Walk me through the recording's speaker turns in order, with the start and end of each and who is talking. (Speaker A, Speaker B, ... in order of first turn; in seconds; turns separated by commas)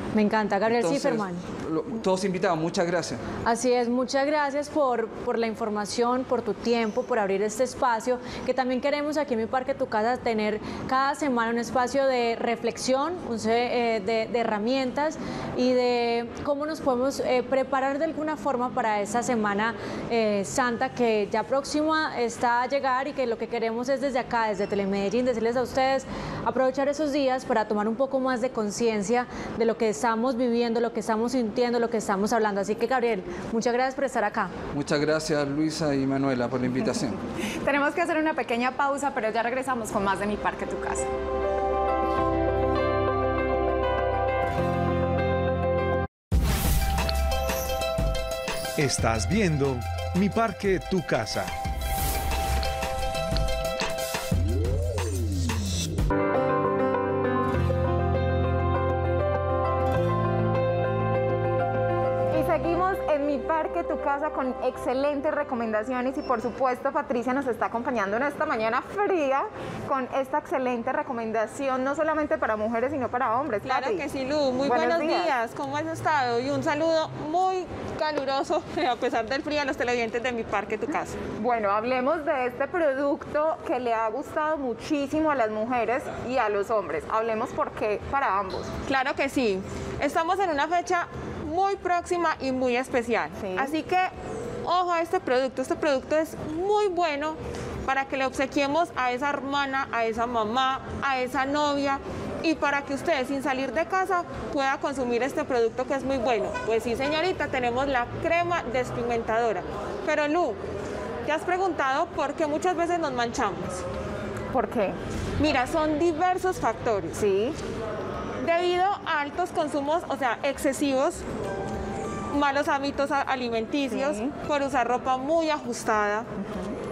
Speaker A: 0.1-1.4, Speaker B: 0.7-3.2, Speaker A: 3.4-34.5, Speaker B: 34.7-37.2, Speaker C: 37.5-41.1, Speaker D: 48.8-51.5, Speaker C: 62.3-74.0, Speaker E: 73.6-81.2, Speaker C: 74.6-75.3, Speaker C: 81.4-88.7, Speaker E: 88.9-94.1, Speaker C: 93.4-93.7, Speaker E: 94.6-110.6, Speaker E: 111.2-113.8, Speaker C: 114.5-115.0, Speaker E: 115.4-117.2, Speaker C: 117.1-117.6, Speaker E: 118.4-121.2, Speaker E: 122.3-126.3, Speaker C: 123.9-124.3, Speaker C: 126.4-126.7